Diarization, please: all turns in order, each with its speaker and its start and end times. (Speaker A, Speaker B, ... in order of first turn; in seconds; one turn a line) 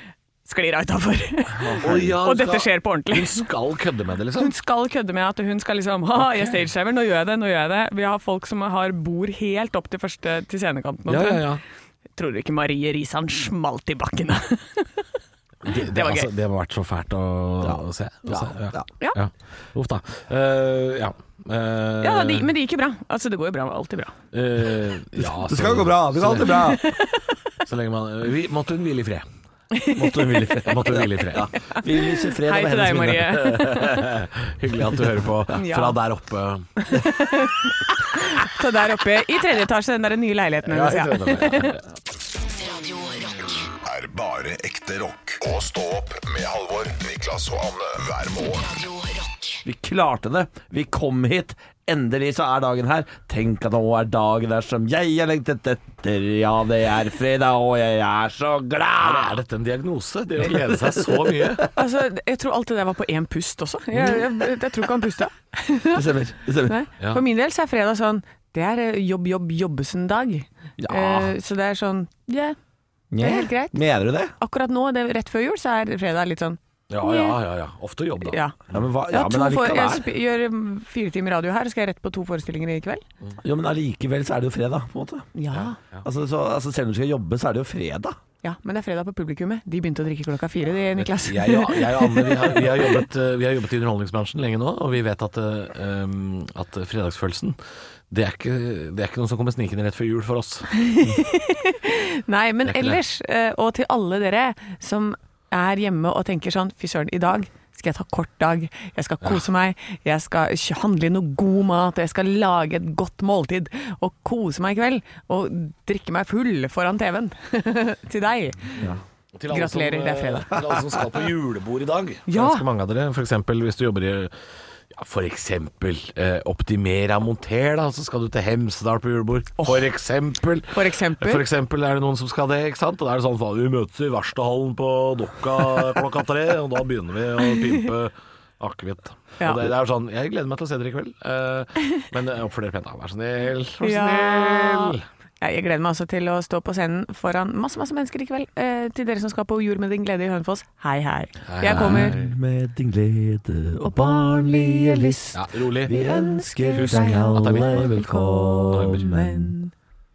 Speaker A: 0.5-3.5
Speaker B: 1.6-2.2
Speaker C: 1.8-4.5
Speaker A: 4.4-11.5
Speaker C: 6.2-6.6
Speaker C: 11.1-11.6
Speaker A: 12.2-15.1
Speaker C: 15.7-22.5
Speaker A: 15.7-16.3
Speaker B: 17.6-18.9
Speaker A: 22.0-24.1
Speaker C: 24.3-26.8
Speaker B: 25.2-26.9
Speaker A: 26.6-27.3
Speaker C: 27.6-29.2
Speaker A: 29.7-30.7
Speaker B: 29.9-33.5
Speaker C: 30.6-31.5
Speaker A: 31.6-34.1
Speaker C: 33.4-36.7
Speaker A: 35.5-36.0
Speaker A: 36.8-41.8
Speaker C: 40.7-41.8
Speaker D: 42.4-43.7
Speaker E: 43.8-48.7
Speaker D: 48.4-49.6
Speaker B: 49.6-59.4
Speaker C: 59.0-61.7
Speaker B: 60.5-61.6
Speaker A: 61.7-66.0
Speaker B: 65.9-66.8
Speaker A: 66.7-72.6
Speaker B: 70.8-71.3
Speaker B: 73.1-74.3
Speaker A: 73.2-73.8
Speaker A: 74.4-77.4
Speaker C: 76.9-78.4
Speaker A: 78.3-78.6
Speaker B: 78.7-80.0
Speaker A: 79.1-83.0
Speaker B: 83.4-85.3
Speaker A: 85.4-85.8
Speaker C: 85.5-86.0
Speaker B: 86.0-88.2
Speaker A: 88.4-92.9
Speaker C: 91.0-97.6
Speaker C: 98.1-100.7
Speaker A: 100.8-118.8
Speaker C: 102.7-103.0
Speaker C: 118.8-124.3
Speaker A: 119.5-120.7
Speaker A: 122.3-122.6
Speaker C: 124.9-145.0
Speaker A: 129.6-129.9
Speaker A: 130.7-131.5
Speaker A: 137.4-137.8
Speaker A: 139.4-139.7
Speaker A: 143.8-152.2
Speaker C: 151.5-152.3
Speaker B: 151.7-159.6
Speaker A: 154.7-155.1
Speaker C: 155.3-156.0
Speaker A: 156.0-159.7
Speaker C: 156.8-158.0
Speaker C: 158.7-159.2